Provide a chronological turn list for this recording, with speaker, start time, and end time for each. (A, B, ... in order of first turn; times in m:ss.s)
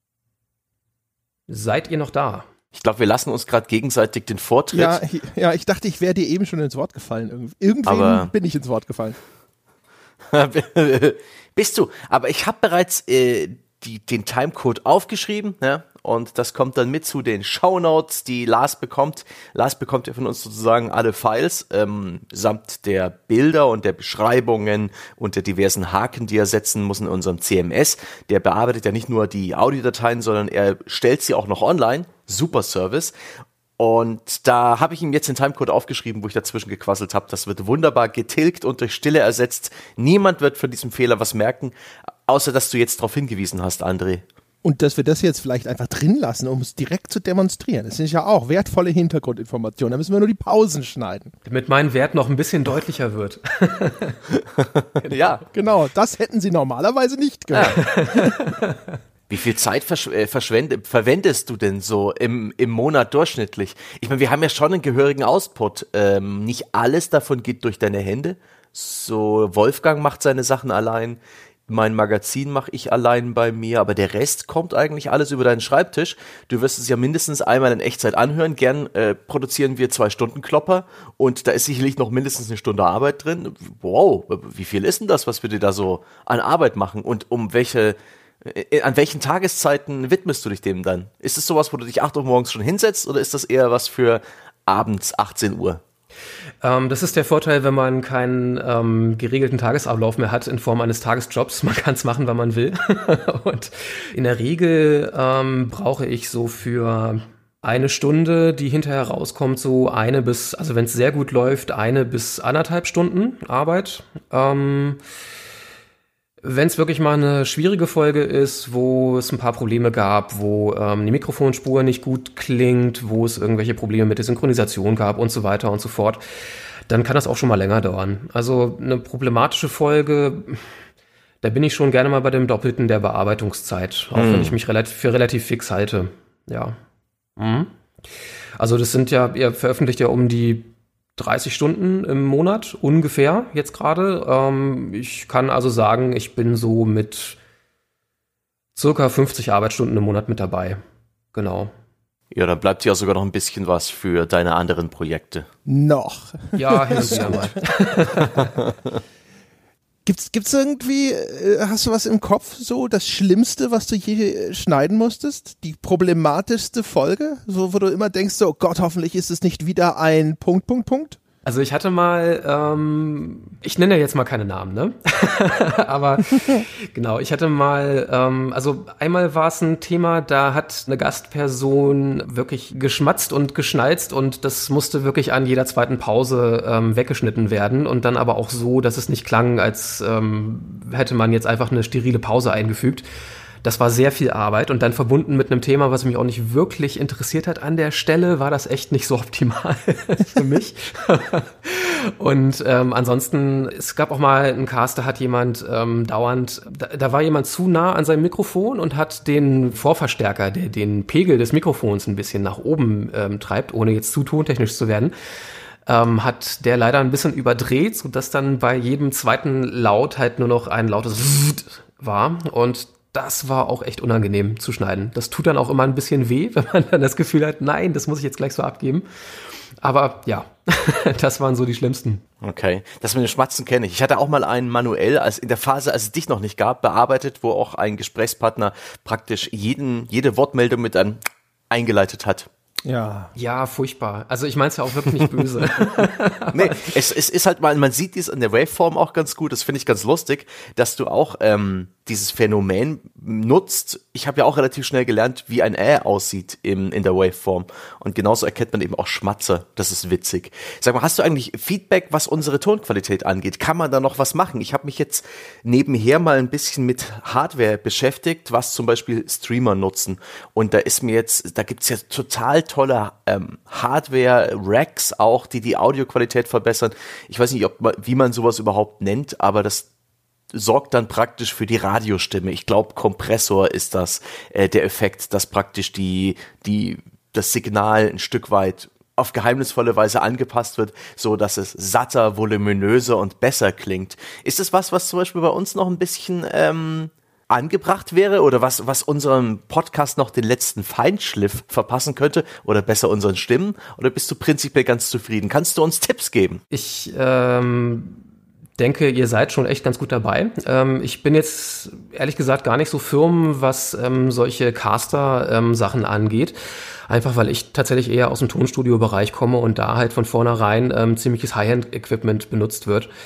0:01.5-0:02.5 A
0:02.7-0:05.0 B
0:04.7-0:09.2 C
0:07.8-0:08.3 B
0:10.2-0:33.1 B
0:33.8-0:41.7 B
0:42.2-0:44.2 B
0:44.6-0:51.3 C
0:51.4-0:54.2 A
0:54.4-0:55.4 B
0:55.5-0:58.4 C
0:57.8-0:58.8 A
0:59.3-1:35.8 B
1:36.6-1:55.0 A
1:56.4-2:06.2 A
2:06.9-2:10.6 A
2:11.4-2:16.8 A
2:14.1-2:14.6 B
2:17.4-2:17.7 A
2:18.6-2:27.4 A
2:28.7-2:30.8 A
2:31.3-2:31.7 A
2:32.3-2:35.5 B
2:35.6-2:37.5 C
2:36.6-2:38.5 A
2:40.0-2:51.2 C
2:51.4-3:13.0 A
3:13.6-3:35.1 A
3:35.8-3:49.1 A
3:49.8-3:52.2 A
3:52.4-4:01.2 B
4:01.7-4:02.5 B
4:02.8-4:03.3 C
4:03.4-4:06.9 A
4:06.5-4:39.8 B
4:40.5-5:06.6 B
5:06.7-5:08.2 A
5:08.8-5:23.1 A